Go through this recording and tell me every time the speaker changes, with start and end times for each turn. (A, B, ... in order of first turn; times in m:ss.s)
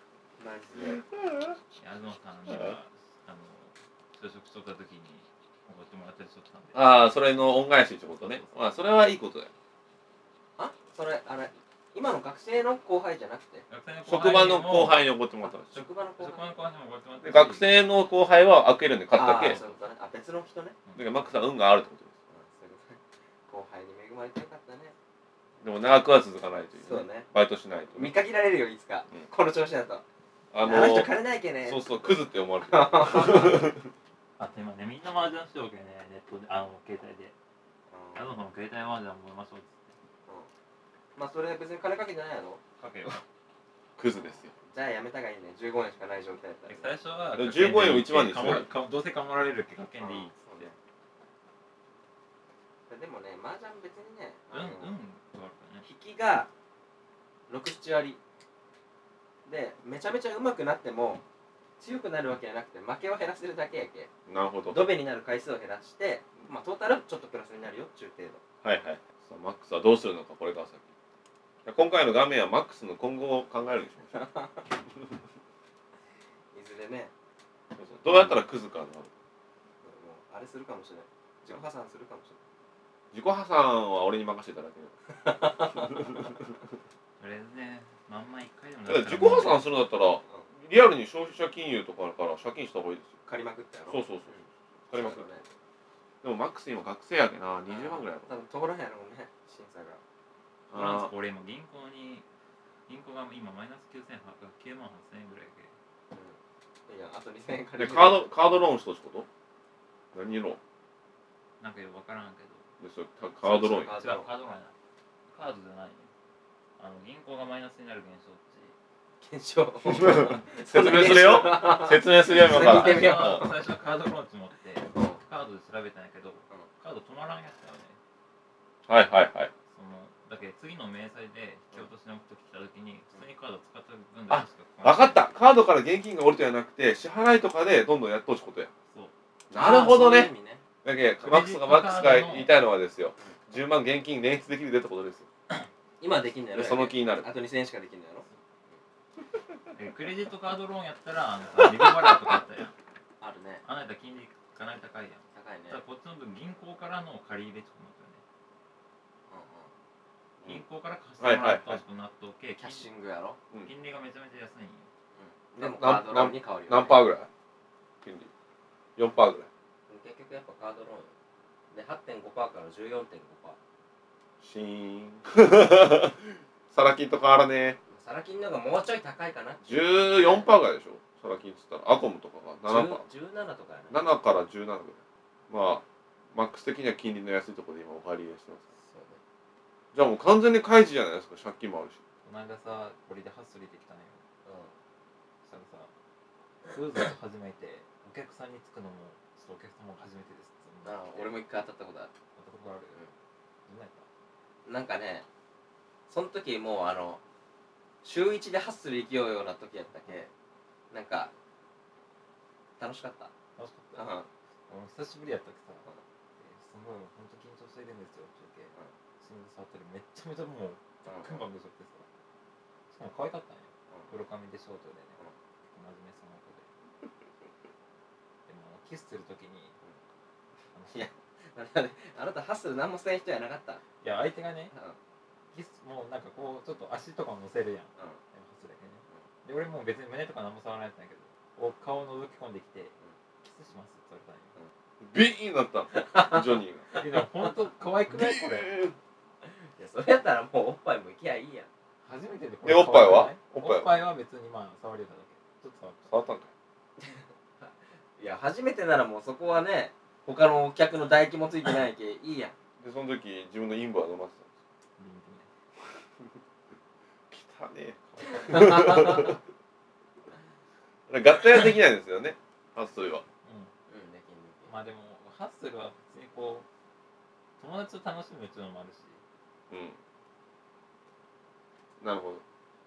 0:00.4-0:01.0 A
0:00.8-0:01.5 B
0:01.8-0:07.0 C
0:02.5-0:02.8 B
0:06.7-0:09.5 B
0:08.2-0:08.6 C
0:10.6-0:13.6 A
0:13.7-0:15.1 C
0:14.0-0:15.8 B
0:15.6-0:16.5 A
0:16.2-0:17.8 C
0:17.2-0:19.6 B
0:19.1-0:20.8 A
0:19.3-0:19.8 C
0:20.8-0:21.3 C
0:21.0-0:22.1 B
0:22.3-0:24.9 A
0:25.6-0:28.1 B
0:26.8-0:27.3 A
0:27.9-0:30.0 A
0:30.5-0:33.9 B
0:30.6-0:32.1 A
0:32.7-0:33.7 A
0:34.4-0:37.3 C
0:37.9-0:38.3 A
0:38.1-0:39.9 C
0:41.2-0:43.1 A
0:42.8-0:43.2 C
0:44.0-0:44.5 B
0:44.6-0:46.9 A
0:46.7-0:50.7 C
0:47.3-0:48.7 B
0:50.0-0:50.7 A
0:52.9-0:54.9 A
0:54.5-0:55.8 C
0:55.8-0:56.5 A
0:57.5-0:58.2 A
0:59.4-1:01.2 A
1:01.8-1:04.1 A
1:04.3-1:04.9 B
1:04.7-1:08.4 A
1:08.6-1:10.9 B
1:11.6-1:14.2 B
1:14.1-1:14.6 A
1:16.5-1:17.1 A
1:17.8-1:19.1 B
1:19.8-1:22.4 A
1:23.1-1:24.9 B
1:25.1-1:26.3 A
1:25.8-1:26.4 B
1:27.2-1:29.7 C
1:28.8-1:33.1 B
1:33.2-1:35.5 A
1:33.9-1:34.3 B
1:34.9-1:35.2 B
1:36.2-1:38.3 B
1:37.7-1:40.0 A
1:40.7-1:41.1 B
1:40.7-1:42.2 C
1:42.9-1:45.7 C
1:46.1-1:48.2 A
1:47.8-1:49.3 B
1:50.1-1:50.6 B
1:51.6-1:52.7 C
1:52.8-1:54.0 B
1:53.4-1:54.3 A
1:53.8-1:54.7 C
1:55.3-1:56.1 C
1:56.8-1:58.7 C
1:59.2-2:03.6 A
1:59.8-2:03.4 B
2:02.3-2:08.0 C
2:04.9-2:05.2 A
2:08.9-2:09.5 B
2:09.7-2:15.2 C
2:14.3-2:18.7 B
2:19.5-2:20.3 B
2:19.5-2:20.6 A
2:20.8-2:25.3 B
2:21.2-2:22.5 C
2:26.0-2:28.8 A
2:26.5-2:27.3 B
2:29.7-2:32.7 C
2:33.2-2:33.6 A
2:33.6-2:38.2 C
2:35.3-2:35.8 A
2:39.3-2:39.7 A
2:40.4-2:42.9 C
2:41.2-2:41.8 B
2:42.6-2:43.4 A
2:43.6-2:44.9 C
2:45.1-2:47.1 A
2:45.6-2:47.3 B
2:48.0-2:48.3 B
2:49.0-2:49.5 B
2:49.9-2:51.1 A
2:51.7-2:53.6 A
2:54.4-2:57.8 B
2:57.9-3:00.5 A
2:59.6-3:03.0 B
3:02.6-3:03.9 A
3:03.9-3:08.6 B
3:08.8-3:09.2 A
3:09.9-3:12.0 B
3:12.2-3:14.2 C
3:14.4-3:14.7 A
3:15.4-3:15.9 C
3:16.6-3:21.4 C
3:20.8-3:22.1 A
3:22.4-3:23.0 C
3:23.7-3:24.0 C
3:24.6-3:25.2 A
3:26.1-3:27.2 A
3:28.0-3:30.3 A
3:30.9-3:31.3 A
3:32.8-3:33.3 A
3:33.6-3:34.2 C
3:34.0-3:34.3 A
3:34.7-3:35.8 C
3:36.4-3:42.0 C
3:41.0-3:41.4 A
3:42.9-3:46.6 C
3:48.5-3:49.7 C
3:50.7-3:51.1 C
3:50.9-3:53.8 A
3:54.0-3:54.7 C
3:54.7-3:55.0 A
3:55.5-4:04.5 C
4:05.0-4:06.8 B
4:05.9-4:07.5 A
4:07.0-4:08.8 C
4:08.1-4:08.9 B
4:09.4-4:11.7 A
4:12.0-4:16.1 C
4:12.6-4:13.9 B
4:16.1-4:16.5 B
4:17.0-4:22.5 A
4:22.8-4:24.5 B
4:25.0-4:25.5 C
4:27.3-4:29.4 B
4:28.1-4:29.1 C
4:28.3-4:29.4 A
4:31.1-4:33.2 B
4:33.4-4:33.7 C
4:33.9-4:34.7 A
4:34.7-4:36.6 C
4:37.6-4:39.2 C
4:39.7-4:40.0 B
4:42.0-4:42.4 B